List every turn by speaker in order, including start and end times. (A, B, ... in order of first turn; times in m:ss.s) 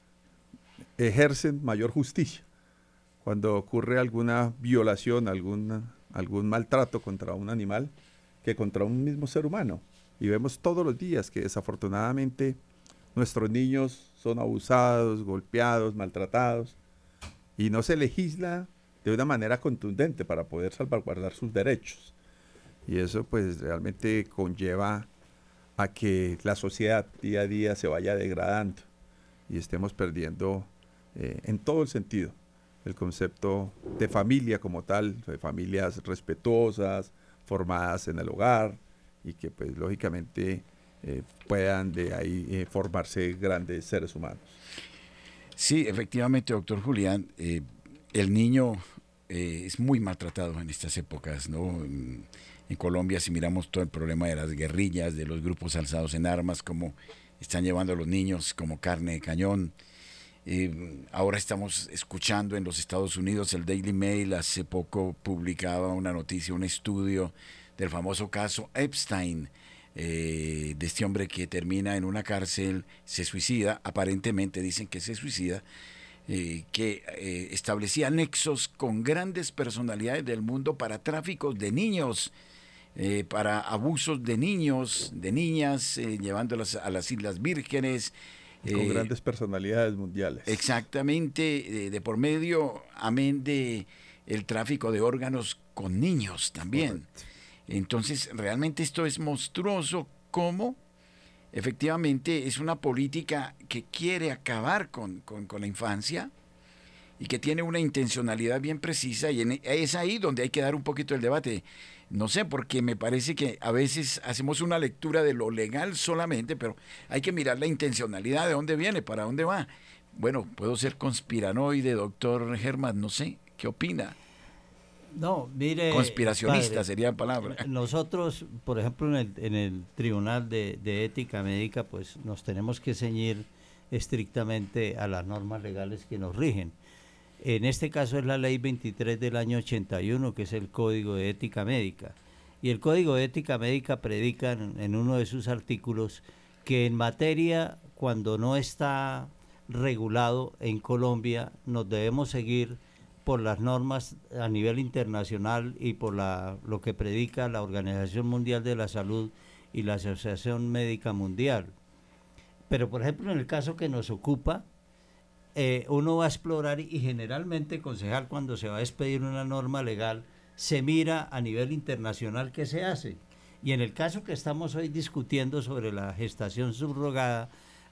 0:01.0-0:02.4 A
0:03.2-0:07.9 A
0:08.4-0:12.6 A
0:13.2-0:16.8 A
0:17.6-0:22.1 A
0:22.9-0:25.1 A
0:25.8-0:28.9 A
0:29.5-0:44.6 A
0:45.6-0:59.7 B
1:00.4-1:15.6 B
1:16.3-1:22.3 B
1:23.0-1:29.1 B
1:28.6-1:30.6 A
1:30.5-1:37.0 B
1:36.7-1:37.1 A
1:37.7-1:40.8 B
1:41.5-1:46.3 B
1:47.2-2:04.2 B
2:05.1-2:06.8 C
2:05.9-2:07.6 B
2:07.4-2:16.8 C
2:17.4-2:41.7 C
2:42.7-2:44.6 C
2:45.6-2:57.5 C